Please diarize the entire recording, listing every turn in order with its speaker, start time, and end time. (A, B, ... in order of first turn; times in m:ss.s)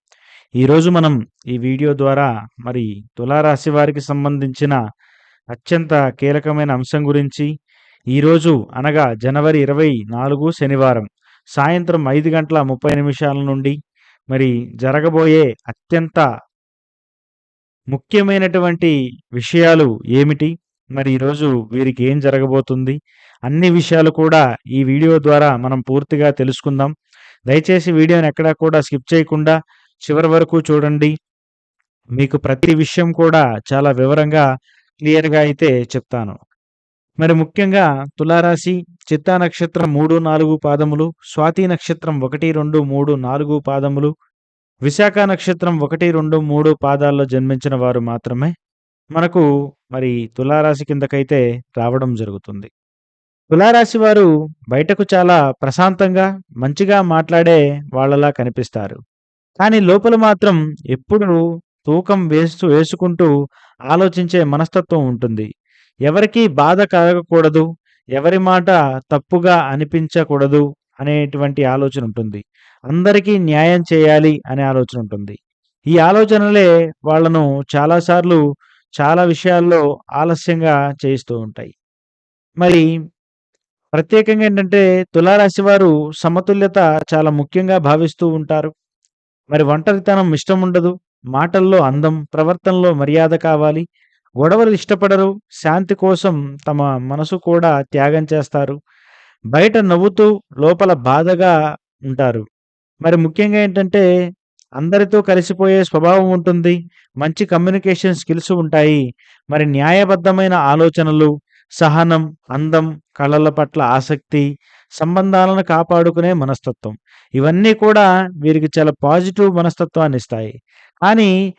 0:00.6-0:04.8 A
0:05.5-0:07.5 A
0:08.2-0:11.1 A
0:11.6-0:13.8 A
0:14.3-0:16.2 A
0:18.0-0:23.0 A
0:23.5-0:26.9 A
0:27.5-0:29.5 A
0:30.1-0:31.1 A
0:32.2-0:34.4 A
0:35.0-0:36.4 A
0:37.2-0:44.1 A
0:44.9-0:48.5 A
0:49.2-0:52.7 A
0:53.5-0:59.0 A
0:59.6-1:01.3 A
1:01.9-1:03.3 A
1:03.9-1:05.5 A
1:06.1-1:07.7 A
1:08.2-1:15.4 A
1:15.9-1:18.4 A
1:19.0-1:21.7 A
1:24.0-1:28.7 A
1:29.5-1:33.8 A
1:34.4-1:38.8 A
1:39.5-1:41.5 A
1:42.1-1:42.4 A
1:43.1-1:44.0 A
1:44.8-1:49.0 A
1:49.5-1:51.3 A
1:51.8-1:54.5 A
1:55.0-2:00.5 A